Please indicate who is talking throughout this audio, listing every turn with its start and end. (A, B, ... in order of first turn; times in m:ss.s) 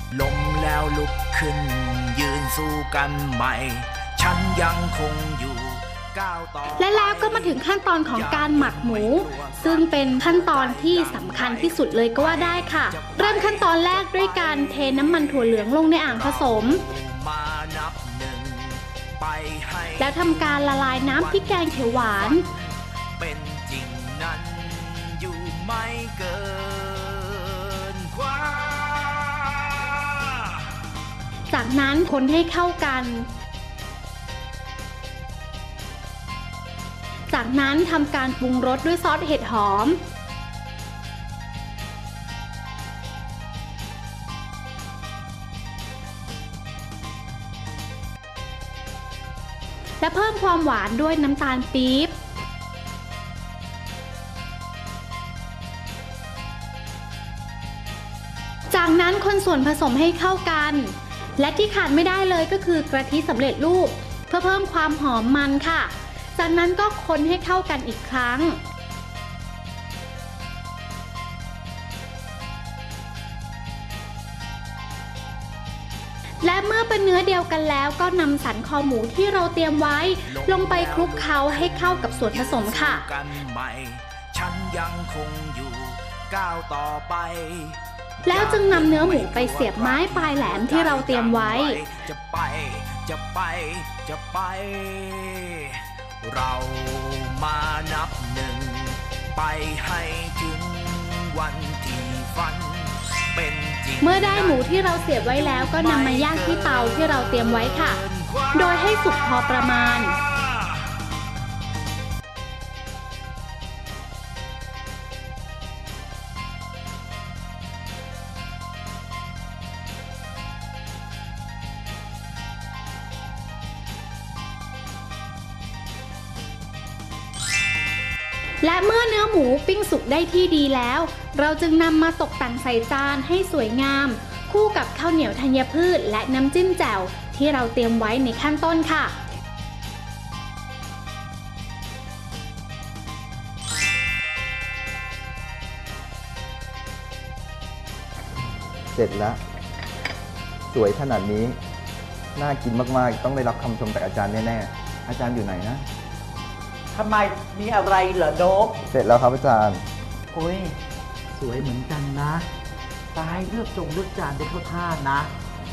0:00.1-0:30.6 A
0:06.8-0:16.8 B
0:20.0-0:22.4 B
0:31.5-0:33.3 B
0:37.3-0:40.0 B
0:50.0-0:52.2 B
0:58.7-1:08.6 B
1:16.4-1:23.0 B
1:20.3-1:49.3 A
1:28.3-1:31.8 B
1:44.0-1:48.0 B
1:48.6-1:50.2 B
2:08.6-2:19.2 B
2:28.9-2:29.4 C
2:30.7-2:31.6 C
2:32.4-2:35.9 C
2:36.9-2:38.8 D
2:38.9-2:39.9 C
2:40.3-2:40.8 D
2:41.3-2:42.5 D
2:43.1-2:45.3 D